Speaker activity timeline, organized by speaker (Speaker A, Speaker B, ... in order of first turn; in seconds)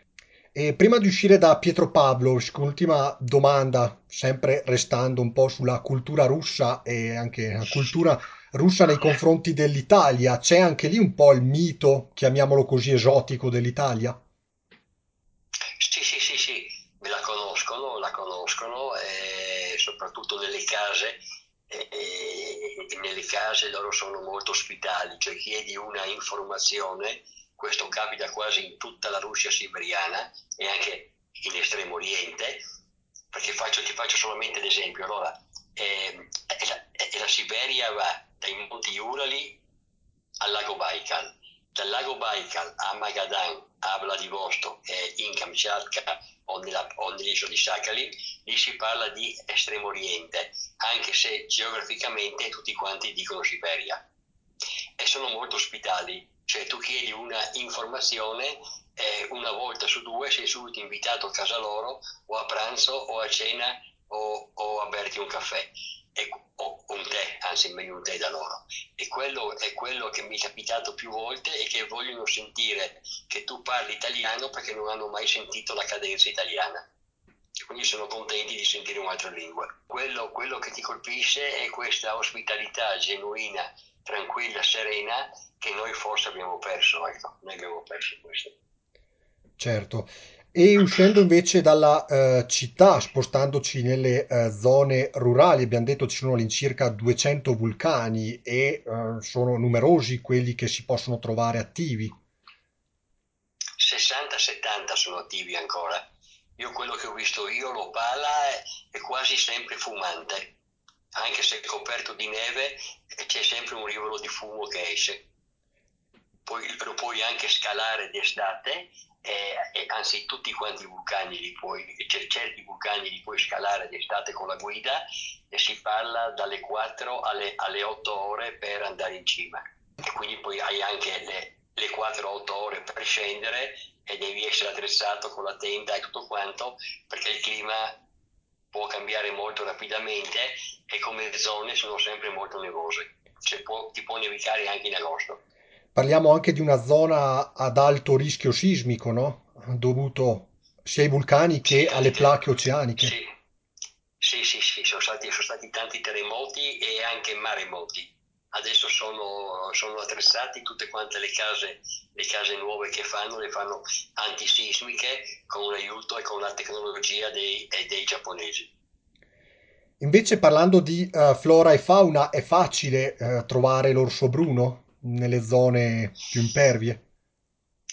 Speaker A: 0.5-14.2, 89.6-102.2, 145.9-153.1, 170.0-177.0
Speaker B: 15.8-32.6, 33.3-39.6, 40.4-54.0, 55.0-76.8, 77.7-88.5, 103.8-106.0, 106.6-110.5, 111.1-115.2, 116.5-137.9, 138.7-145.4, 151.7-152.3, 153.0-153.3, 154.2-168.7